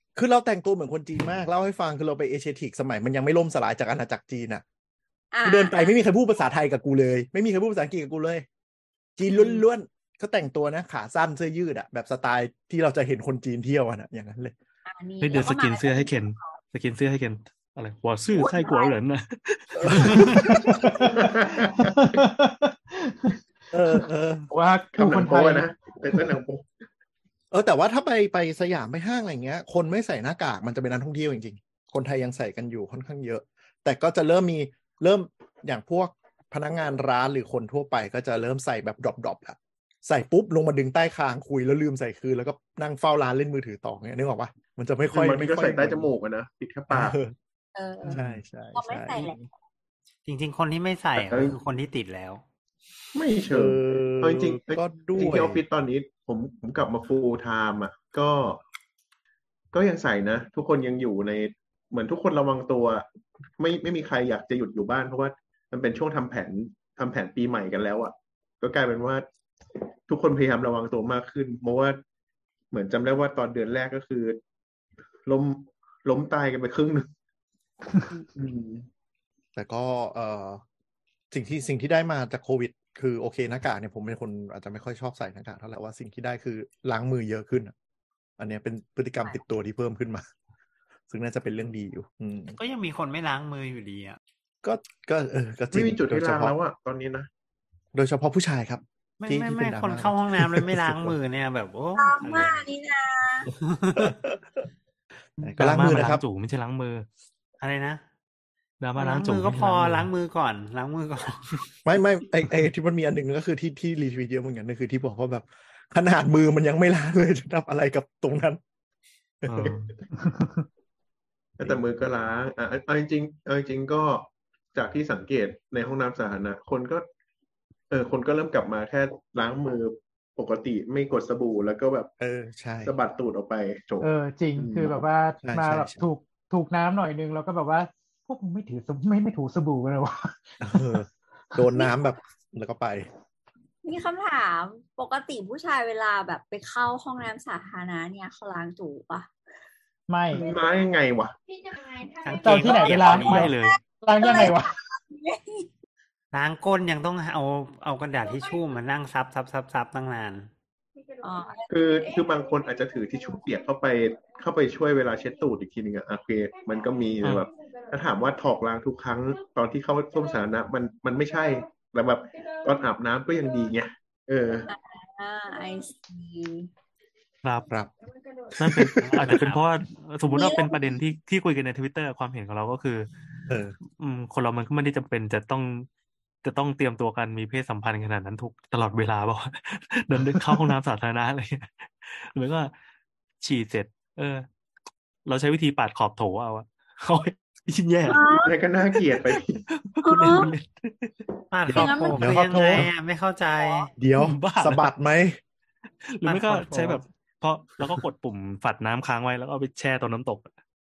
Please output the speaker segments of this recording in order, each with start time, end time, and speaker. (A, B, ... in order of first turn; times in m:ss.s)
0:00.1-0:04.6 A
0:05.3-0:06.0 B
0:05.4-0:08.4 A
0:09.2-0:14.5 A
0:09.3-0:09.6 B
0:14.9-0:16.6 B
0:15.2-0:20.3 C
0:18.3-0:18.9 B
0:19.8-0:20.9 A
0:20.0-0:20.3 D
0:20.4-0:21.1 E
0:20.9-0:22.2 F
0:21.8-0:23.4 E
0:23.7-0:24.5 A
0:24.5-0:25.7 E
0:24.9-0:26.7 F
0:27.5-0:46.1 A
0:45.1-0:47.2 F
0:46.9-0:47.4 A
0:47.8-0:48.2 B
0:48.0-0:49.5 A
0:48.7-0:49.4 B
0:50.2-0:52.4 D
0:51.2-0:51.6 F
0:53.1-0:58.6 F
0:53.5-0:55.6 A
0:59.7-1:09.2 F
1:10.1-1:12.0 F
1:12.7-1:14.4 F
1:15.2-1:17.1 F
1:18.3-1:18.9 F
1:19.6-1:20.6 A
1:21.3-1:27.7 A
1:28.4-1:30.2 A
1:31.1-1:32.6 A
1:32.5-1:34.2 D
1:34.6-1:36.6 A
1:35.7-1:37.3 F
1:37.9-1:41.2 A
1:39.2-1:42.6 D
1:42.0-1:43.5 B
1:43.5-1:44.2 D
1:44.0-1:44.4 A
1:45.4-1:46.2 A
1:45.6-1:47.0 C
1:47.6-1:48.0 D
1:48.8-1:50.1 C
1:49.0-1:51.7 D
1:51.8-1:58.6 A
1:59.4-1:59.8 A
1:59.4-1:59.9 C
2:00.3-2:00.6 E
2:01.6-2:07.0 F
2:07.9-2:12.1 F
2:12.2-2:12.9 A
2:12.8-2:14.9 F
2:14.0-2:21.6 E
2:15.4-2:16.0 A
2:20.6-2:23.1 A
2:23.8-2:29.3 B
2:30.1-2:30.5 E
2:30.3-2:31.4 F
2:32.2-2:33.5 D
2:32.4-2:34.8 E
2:32.5-2:33.8 C
2:33.5-2:35.7 B
2:36.3-2:40.5 D
2:41.2-2:41.7 B
2:41.7-2:54.7 F
2:47.2-2:47.5 C
2:54.7-2:56.7 B
2:57.4-2:57.7 C
2:57.6-2:57.9 A
2:58.5-2:59.3 A
2:58.6-3:03.1 C
2:59.0-2:59.6 D
3:00.3-3:01.0 B
3:03.5-3:03.8 A
3:04.0-3:05.9 C
3:06.4-3:12.7 C
3:13.4-3:14.5 C
3:15.2-3:18.2 C
3:18.0-3:18.6 B
3:18.4-3:19.6 F
3:19.7-3:21.1 C
3:20.0-3:20.5 B
3:21.5-3:23.9 D
3:21.7-3:22.9 A
3:21.7-3:22.3 B
3:22.4-3:22.8 E
3:24.0-3:25.4 A
3:24.2-3:24.9 C
3:26.0-3:30.5 C
3:26.2-3:27.0 D